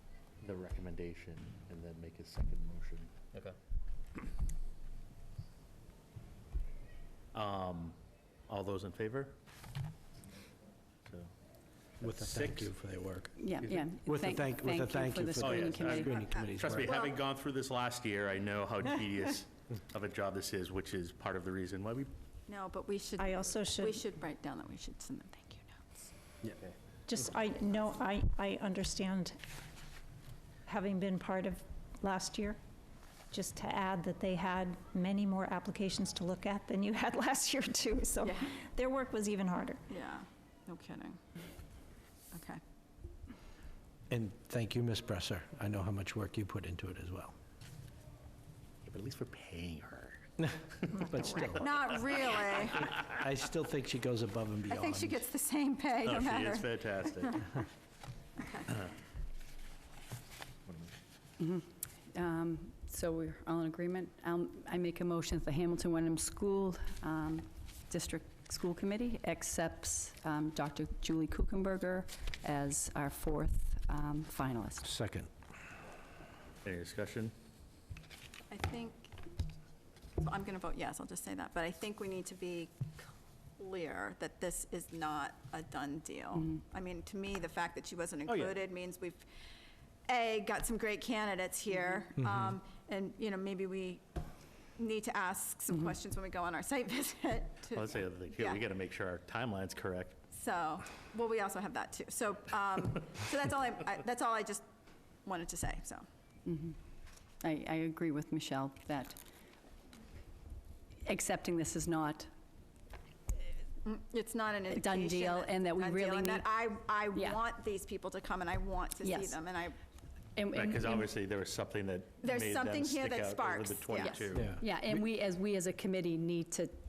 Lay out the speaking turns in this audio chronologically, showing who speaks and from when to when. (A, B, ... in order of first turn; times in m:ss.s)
0:00.4-0:03.1 A
0:07.3-0:08.0 A
0:08.5-0:09.4 A
0:11.0-0:11.3 A
0:12.0-0:12.7 A
0:12.0-0:13.3 B
0:13.4-0:16.2 C
0:13.6-0:13.9 A
0:14.0-0:17.0 B
0:15.4-0:22.1 A
0:16.3-0:16.9 D
0:22.5-0:26.1 D
0:23.2-0:24.0 E
0:27.1-0:29.4 E
0:30.6-0:32.6 E
0:33.3-0:39.8 E
0:38.2-0:38.6 D
0:39.9-0:41.2 D
0:42.3-0:42.6 D
0:44.1-0:47.3 B
0:48.8-0:50.2 A
0:50.9-0:51.6 E
0:51.1-0:51.9 B
0:51.6-0:52.9 D
0:52.9-0:55.2 B
0:54.7-0:57.6 D
0:56.0-0:57.4 A
0:58.4-0:58.7 D
1:00.7-1:00.9 A
1:01.4-1:14.9 C
1:14.8-1:15.3 B
1:16.6-1:17.3 A
1:18.5-1:19.1 D
1:20.2-1:29.2 D
1:28.3-1:28.6 A
1:30.1-1:34.0 D
1:34.8-1:38.6 D
1:37.7-1:40.2 A
1:40.3-1:44.6 D
1:45.2-1:46.0 D
1:46.4-1:46.8 C
1:47.4-1:49.2 C
1:51.0-1:52.3 C
1:53.8-1:59.8 D
1:54.7-1:56.5 C
1:57.1-1:57.4 C
1:59.0-1:59.4 C
2:00.4-2:01.1 C
2:00.5-2:04.6 A
2:02.2-2:04.3 D
2:04.3-2:04.7 B
2:04.6-2:06.7 C